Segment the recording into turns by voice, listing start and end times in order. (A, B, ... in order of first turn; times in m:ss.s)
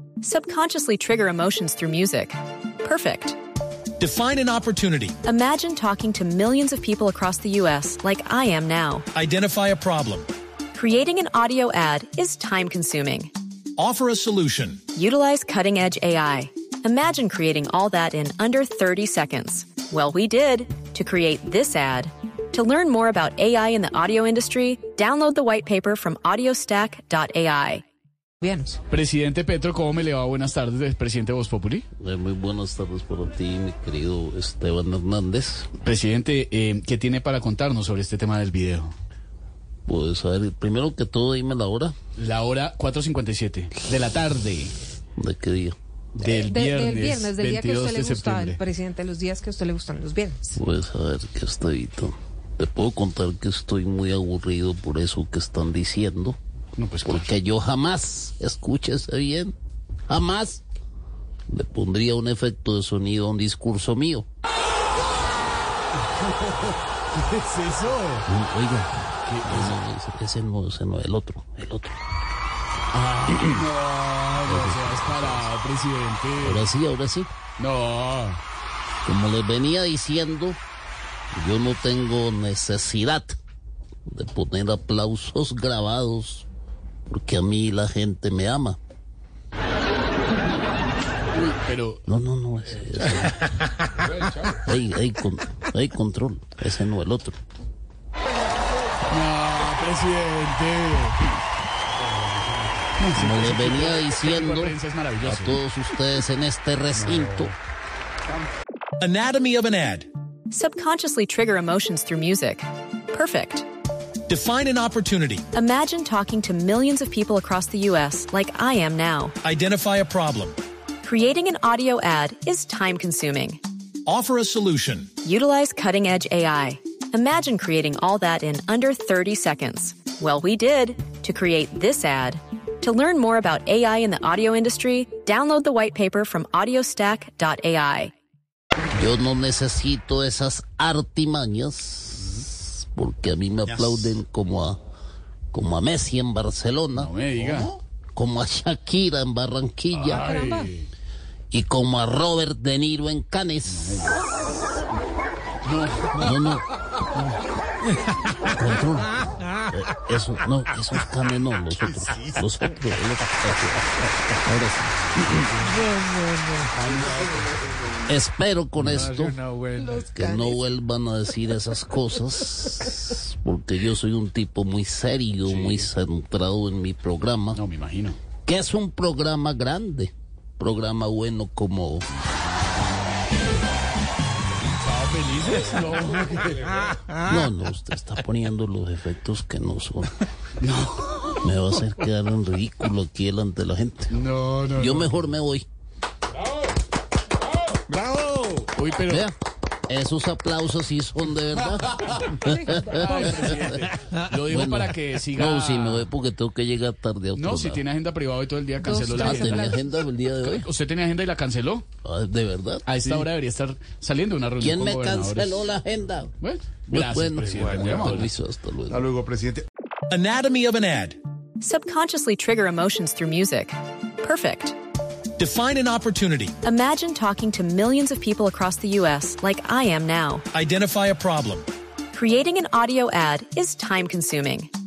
0:00.2-0:03.4 A
0:04.0-0:05.2 B
0:05.2-0:09.1 A
0:09.2-0:10.3 B
0:10.7-0:13.3 A
0:13.8-0:14.8 B
0:15.0-0:27.8 A
0:28.4-0:28.8 C
0:28.9-0:31.8 D
0:32.0-0:35.7 E
0:35.8-0:38.9 D
0:39.9-0:42.0 E
0:42.2-0:44.8 D
0:45.2-0:45.8 E
0:46.2-0:48.6 D
0:46.2-0:50.6 C
0:50.5-0:56.4 E
0:56.8-0:57.2 D
0:57.0-0:59.5 E
1:00.1-1:00.6 E
1:01.5-1:04.3 E
1:06.2-1:08.3 D
1:08.3-1:12.0 E
1:09.3-1:09.8 D
1:12.9-1:16.7 D
1:14.4-1:15.5 E
1:16.4-1:17.3 E
1:17.6-1:18.4 D
1:19.1-1:20.6 E
1:21.3-1:23.4 E
1:24.1-1:26.5 E
1:27.1-1:28.8 E
1:31.3-1:32.0 D
1:32.1-1:33.4 E
1:34.4-1:37.4 E
1:39.1-1:41.4 D
1:43.0-1:45.6 D
1:43.1-1:47.6 E
1:49.0-1:50.1 B
1:50.5-1:53.6 A
1:54.3-1:55.4 B
1:55.5-1:59.4 A
1:59.4-2:00.6 B
2:01.0-2:03.6 A
2:04.1-2:05.1 B
2:05.2-2:18.1 A
2:18.9-2:24.8 E
2:23.7-2:24.1 B
2:25.5-2:27.1 E
2:27.0-2:27.7 D
2:28.2-2:30.4 E
2:29.9-2:30.9 D
2:30.3-2:30.6 C
2:31.5-2:34.3 E
2:33.6-2:34.2 D
2:35.6-2:36.3 D
2:36.2-2:36.7 E
2:38.4-2:45.5 E
2:46.7-2:47.5 D
2:48.1-2:49.4 E
2:48.8-2:50.0 F
2:49.8-2:50.5 C
2:50.1-2:57.6 E
2:55.5-2:55.9 D
2:57.5-2:58.2 D
2:58.4-3:02.1 E
3:04.7-3:07.0 D
3:07.1-3:10.3 E
3:10.6-3:11.5 D
3:11.4-3:14.2 E
3:14.1-3:15.2 D
3:14.8-3:15.7 E
3:17.7-3:19.2 D
3:19.1-3:19.4 E
3:19.9-3:23.7 E
3:22.2-3:26.1 D
3:24.5-3:27.8 E
3:27.4-3:29.8 D
3:28.8-3:29.8 C
3:29.1-3:30.7 E
3:30.4-3:31.8 D
3:32.0-3:33.0 E
3:32.9-3:35.6 D
3:34.6-3:36.3 E
3:36.4-3:38.3 D
3:36.9-3:39.1 E
3:37.6-3:38.1 F
3:38.9-3:39.6 F
3:40.1-3:41.2 B
3:41.6-3:44.8 A
3:45.4-3:46.6 B
3:46.6-3:50.4 A
3:50.5-3:51.7 B
3:52.1-3:54.7 A